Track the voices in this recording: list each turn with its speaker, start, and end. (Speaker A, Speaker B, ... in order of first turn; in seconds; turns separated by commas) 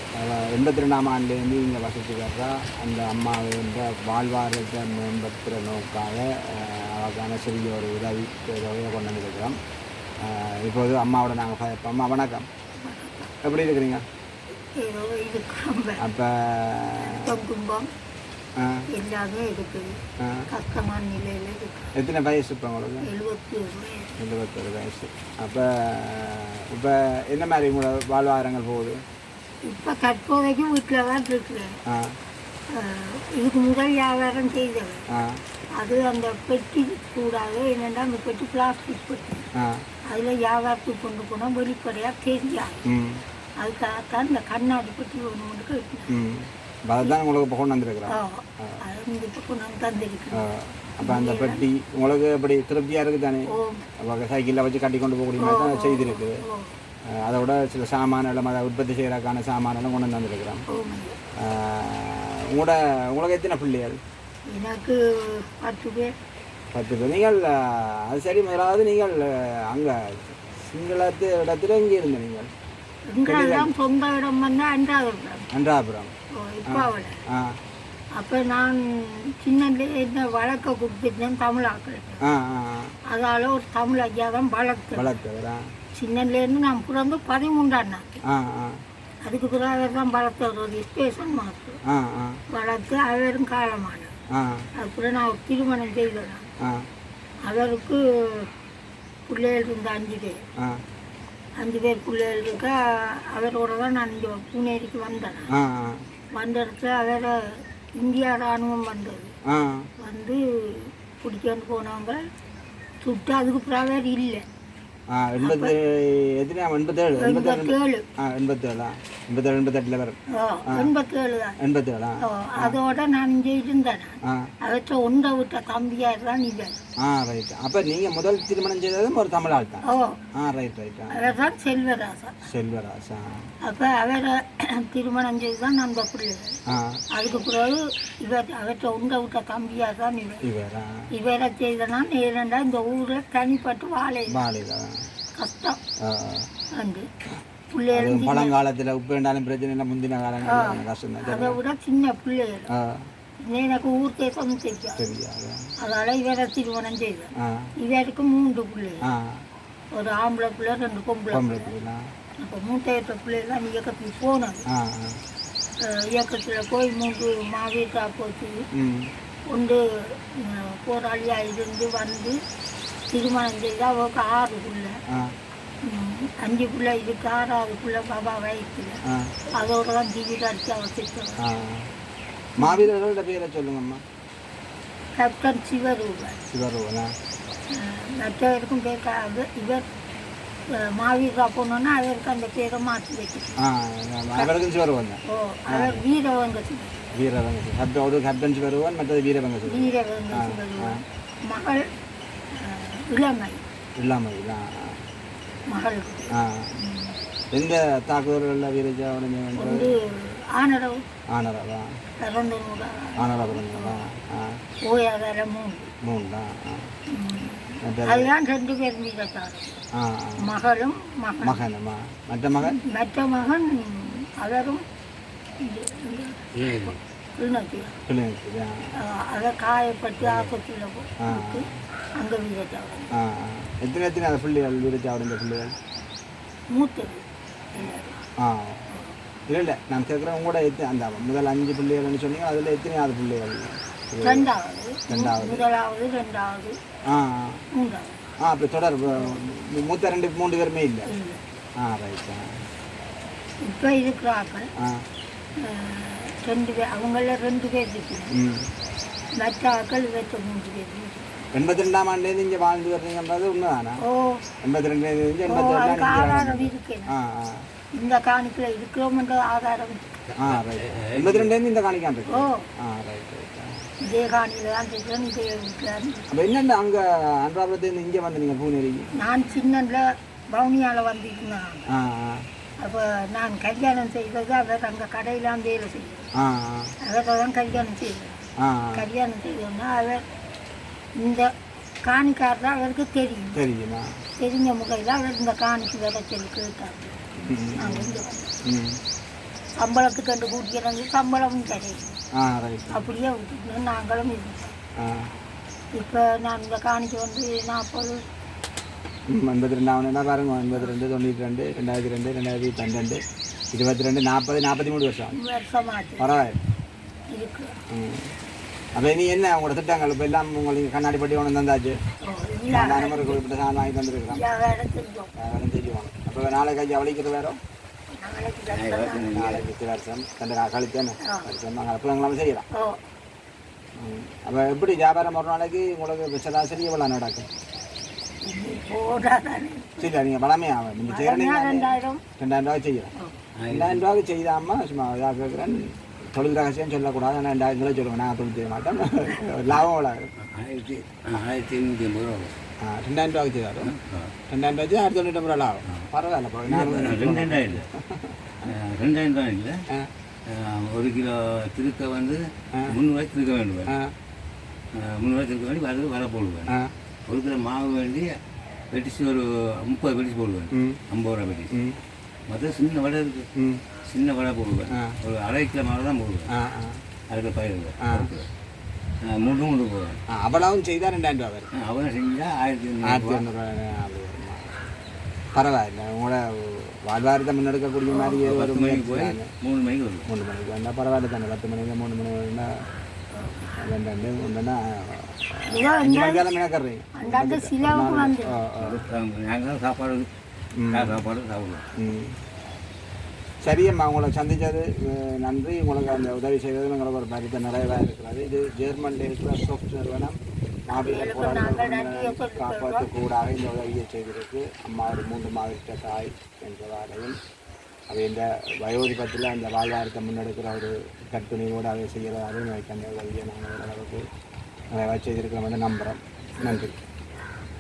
Speaker A: 0.2-9.6, Speaker A: 10.2-12.5, Speaker B: 12.8-13.3, Speaker A: 13.4-14.0, Speaker B: 14.7-16.0, Speaker A: 16.0-17.4, Speaker B: 17.1-17.9, Speaker A: 18.6-18.9, Speaker B: 18.9-20.0, Speaker A: 20.2-20.5, Speaker B: 20.5-21.9, Speaker A: 21.9-23.1, Speaker B: 23.0-24.1, Speaker A: 24.1-29.0, Speaker B: 29.6-31.8, Speaker A: 31.9-32.1, Speaker B: 32.7-35.0, Speaker A: 35.1-35.4, Speaker B: 35.7-39.5, Speaker A: 39.6-39.8, Speaker B: 40.1-42.9, Speaker A: 42.9-43.2, Speaker B: 43.6-46.2, Speaker A: 46.1-48.8, Speaker B: 48.1-50.5, Speaker A: 50.3-53.5, Speaker B: 51.0-51.7, Speaker B: 53.5-53.9, Speaker A: 54.0-56.4, Speaker B: 55.4-56.8, Speaker A: 57.1-60.6, Speaker B: 60.7-61.2, Speaker A: 61.4-64.0, Speaker B: 64.5-66.2, Speaker A: 66.7-72.5, Speaker B: 73.1-75.5, Speaker A: 73.2-73.7, Speaker A: 75.5-76.1, Speaker B: 76.3-77.2, Speaker A: 76.7-77.5, Speaker B: 78.2-82.2, Speaker A: 82.2-83.0, Speaker B: 83.1-85.1, Speaker A: 84.9-85.6, Speaker B: 85.9-88.1, Speaker A: 88.3-88.8, Speaker B: 89.2-91.8, Speaker A: 91.8-92.4, Speaker B: 92.5-94.1, Speaker A: 94.3-94.7, Speaker B: 94.8-96.5, Speaker B: 97.4-98.5, Speaker B: 99.3-100.4, Speaker B: 101.6-105.5, Speaker A: 105.5-106.0, Speaker B: 106.3-109.3, Speaker A: 109.5-109.9, Speaker B: 110.0-112.3, Speaker B: 113.0-114.5, Speaker A: 115.1-120.9, Speaker B: 115.4-115.8, Speaker B: 117.2-118.1, Speaker B: 120.3-121.6, Speaker A: 121.6-122.8, Speaker B: 122.2-126.8, Speaker A: 124.2-124.5, Speaker A: 127.0-131.3, Speaker B: 129.9-130.2, Speaker B: 131.1-132.4, Speaker A: 132.4-133.5, Speaker B: 133.6-136.6, Speaker A: 136.7-137.0, Speaker B: 137.1-140.5, Speaker A: 140.4-141.1, Speaker B: 141.1-144.5, Speaker A: 144.3-145.0, Speaker B: 145.3-145.8, Speaker A: 146.0-146.5, Speaker B: 146.7-147.1, Speaker B: 147.7-148.6, Speaker A: 147.9-151.6, Speaker B: 150.4-152.7, Speaker A: 152.7-153.0, Speaker B: 153.4-155.1, Speaker A: 155.0-155.7, Speaker B: 155.8-159.1, Speaker A: 157.4-157.7, Speaker A: 159.0-159.4, Speaker B: 159.9-161.7, Speaker A: 161.3-162.0, Speaker B: 162.4-164.7, Speaker A: 164.7-165.2, Speaker B: 165.8-168.7, Speaker A: 168.7-169.1, Speaker B: 169.5-172.4, Speaker B: 173.1-175.0, Speaker A: 175.1-175.3, Speaker B: 175.8-181.4, Speaker A: 179.1-179.4, Speaker A: 181.4-181.9, Speaker A: 182.6-184.0, Speaker B: 182.6-182.9, Speaker B: 185.2-186.4, Speaker A: 186.5-187.1, Speaker B: 187.7-189.9, Speaker B: 190.7-193.7, Speaker A: 193.6-196.0, Speaker B: 195.3-197.0, Speaker A: 197.2-201.0, Speaker B: 199.7-202.0, Speaker B: 202.5-203.6, Speaker A: 204.0-204.7, Speaker B: 205.7-207.2, Speaker A: 206.3-206.7, Speaker A: 207.5-209.9, Speaker B: 209.6-211.1, Speaker A: 211.3-211.9, Speaker B: 212.2-214.1, Speaker A: 213.2-214.6, Speaker B: 214.8-215.9, Speaker A: 216.0-216.9, Speaker B: 217.1-219.8, Speaker A: 217.8-218.3, Speaker A: 220.0-220.5, Speaker B: 220.4-221.7, Speaker A: 221.4-222.8, Speaker B: 222.6-224.8, Speaker B: 225.6-228.0, Speaker C: 226.6-227.0, Speaker A: 228.1-228.9, Speaker B: 229.0-233.2, Speaker C: 230.2-230.6, Speaker A: 231.2-231.7, Speaker A: 233.1-235.8, Speaker B: 236.7-238.2, Speaker A: 238.4-238.8, Speaker B: 238.9-239.2, Speaker A: 239.5-244.5, Speaker B: 244.2-246.8, Speaker A: 245.1-245.7, Speaker A: 247.1-247.6, Speaker B: 247.7-248.2, Speaker A: 248.4-251.1, Speaker B: 249.1-249.5, Speaker B: 251.1-251.4, Speaker A: 251.8-252.4, Speaker B: 253.6-254.7, Speaker B: 255.6-258.3, Speaker A: 258.3-258.7, Speaker B: 259.3-261.3, Speaker A: 261.5-264.0, Speaker B: 264.0-264.4, Speaker A: 264.6-267.7, Speaker B: 265.5-267.1, Speaker B: 267.9-270.1, Speaker C: 270.3-271.5, Speaker A: 270.4-273.7, Speaker B: 272.3-272.7, Speaker B: 274.0-276.3, Speaker A: 276.3-279.1, Speaker B: 279.2-281.9, Speaker A: 281.9-282.4, Speaker B: 282.8-286.3, Speaker A: 286.4-286.9, Speaker B: 287.0-288.4, Speaker A: 288.6-289.1, Speaker B: 288.9-290.3, Speaker B: 291.1-293.6, Speaker A: 293.5-294.1, Speaker B: 294.4-297.2, Speaker A: 297.4-299.0, Speaker B: 297.8-298.6, Speaker B: 299.7-302.2, Speaker A: 302.4-303.1, Speaker B: 302.9-304.8, Speaker A: 305.0-305.3, Speaker B: 305.9-308.3, Speaker A: 309.3-313.2, Speaker A: 313.7-315.4, Speaker B: 315.3-316.3, Speaker A: 316.2-316.6, Speaker B: 317.3-317.8, Speaker A: 317.9-318.3, Speaker A: 319.0-322.0, Speaker B: 322.2-323.4, Speaker A: 322.7-324.4, Speaker B: 324.3-325.3, Speaker A: 325.4-327.6, Speaker B: 328.1-329.3, Speaker C: 328.7-329.7, Speaker A: 329.3-332.7, Speaker B: 331.2-331.5, Speaker B: 332.7-333.0, Speaker A: 334.0-337.5, Speaker B: 338.4-340.1, Speaker A: 340.0-343.1, Speaker B: 341.1-342.2, Speaker B: 343.1-343.4, Speaker C: 343.6-344.1, Speaker A: 343.7-350.3, Speaker C: 350.4-352.6, Speaker A: 352.8-353.9, Speaker C: 353.8-354.3, Speaker A: 354.5-358.4, Speaker C: 356.6-357.9, Speaker C: 358.6-359.8, Speaker C: 360.5-364.0, Speaker A: 363.9-364.1, Speaker C: 365.0-368.4, Speaker A: 366.7-366.9, Speaker C: 368.9-371.8, Speaker A: 370.7-371.0, Speaker A: 371.7-372.0, Speaker C: 372.5-373.5, Speaker A: 373.6-373.8, Speaker C: 374.1-376.5, Speaker A: 374.9-375.2, Speaker A: 376.5-377.0, Speaker C: 377.3-378.5, Speaker A: 378.0-378.3, Speaker C: 379.3-380.2, Speaker A: 380.3-381.7, Speaker C: 381.8-383.4, Speaker A: 383.0-384.6, Speaker A: 385.6-389.5, Speaker B: 388.1-388.4, Speaker C: 388.4-390.3, Speaker A: 390.3-392.7, Speaker A: 393.8-399.0, Speaker B: 395.7-396.5, Speaker B: 397.2-398.7, Speaker C: 398.8-400.3, Speaker A: 400.8-401.2, Speaker C: 400.9-401.9, Speaker A: 402.0-402.4, Speaker A: 403.6-410.4, Speaker A: 410.9-417.4, Speaker B: 411.0-413.1, Speaker A: 418.1-424.2, Speaker A: 424.9-427.0, Speaker B: 426.6-426.9